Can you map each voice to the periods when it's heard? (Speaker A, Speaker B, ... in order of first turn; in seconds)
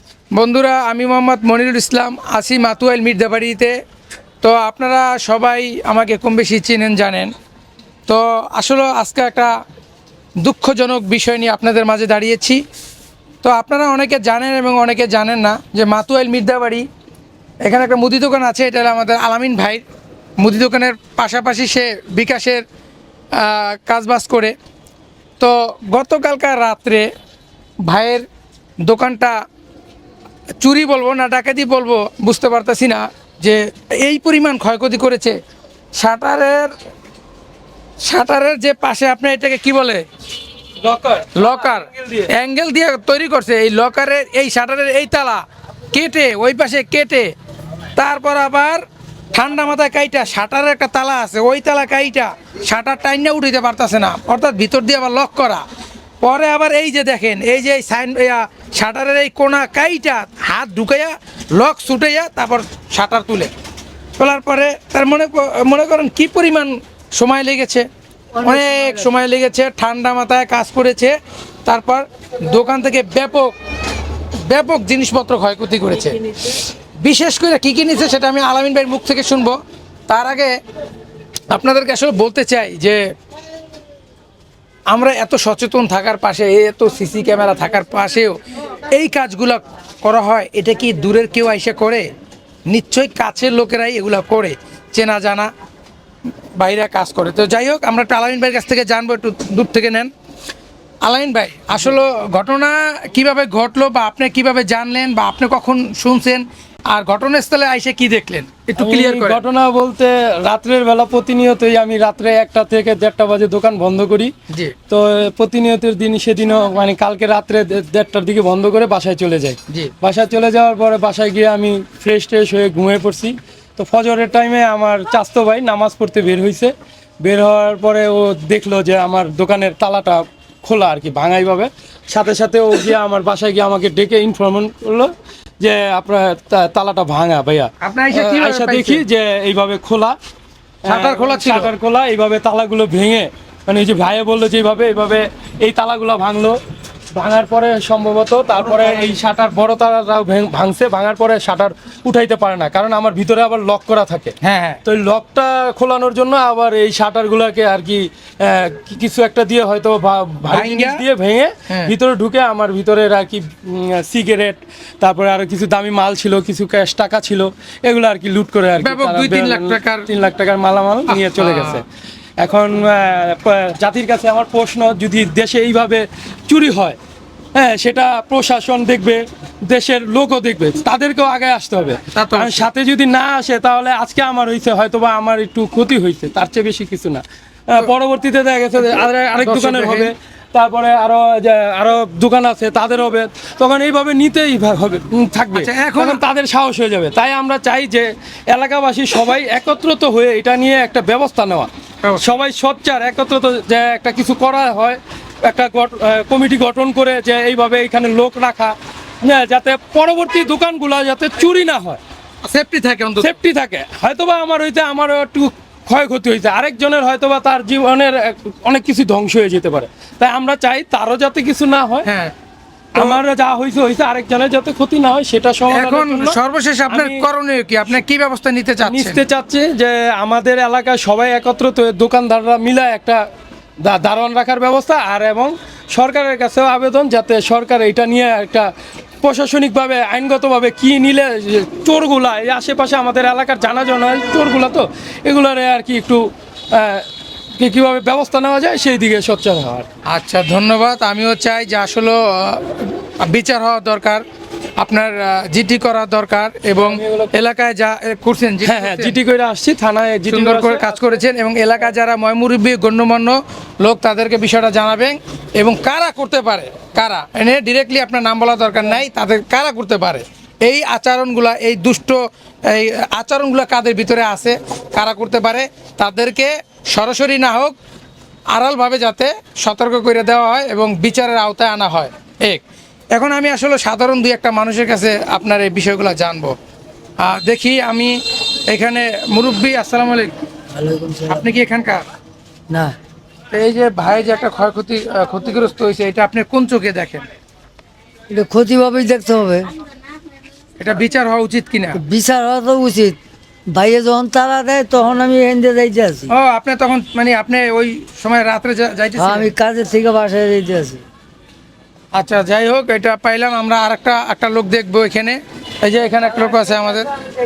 Speaker A: 0.4-3.8, 4.4-7.3, 8.1-9.5, 10.4-12.6, 13.4-16.9, 17.6-19.8, 20.4-22.6, 23.4-24.5, 25.4-27.1, 27.9-28.2, 28.9-29.4, 30.6-35.4, 36.0-36.7, 38.0-40.0, 41.4-47.3, 48.0-48.8, 49.3-55.6, 56.2-63.5, 64.2-73.5, 74.5-79.6, 80.1-80.5, 81.5-83.0, 84.9-88.4, 88.9-92.1, 92.7-95.5, 96.6-100.1, 101.0-109.4, 137.8-139.0, 140.9-141.7, 154.4-154.8, 160.5-161.0, 161.7-161.9, 168.8-170.1, 171.1-171.8, 182.1-182.7, 188.9-190.1, 195.6-196.2, 202.0-202.3, 212.4-213.3, 222.1-222.3, 223.0-223.2, 225.7-229.2, 250.1-254.2, 254.8-259.2, 260.3-277.8, 278.5-282.6, 283.1-286.5, 287.2-288.2, 288.7-290.3, 291.3-292.0, 293.5-297.2, 300.8-302.0, 306.3-309.5, 312.1-317.1
Speaker B: 40.8-42.3, 108.8-114.3, 114.9-140.2, 140.9-146.6, 147.1-154.3, 154.9-171.8, 172.4-177.0, 177.6-212.0, 213.2-222.1, 223.0-226.4, 226.9-227.3, 228.8-233.2, 233.8-238.7, 239.2-249.9, 256.8-257.3, 258.6-261.1
Speaker C: 290.8-291.4, 292.7-293.0, 298.3-299.7, 302.0-303.2, 303.7-306.3, 309.2-311.0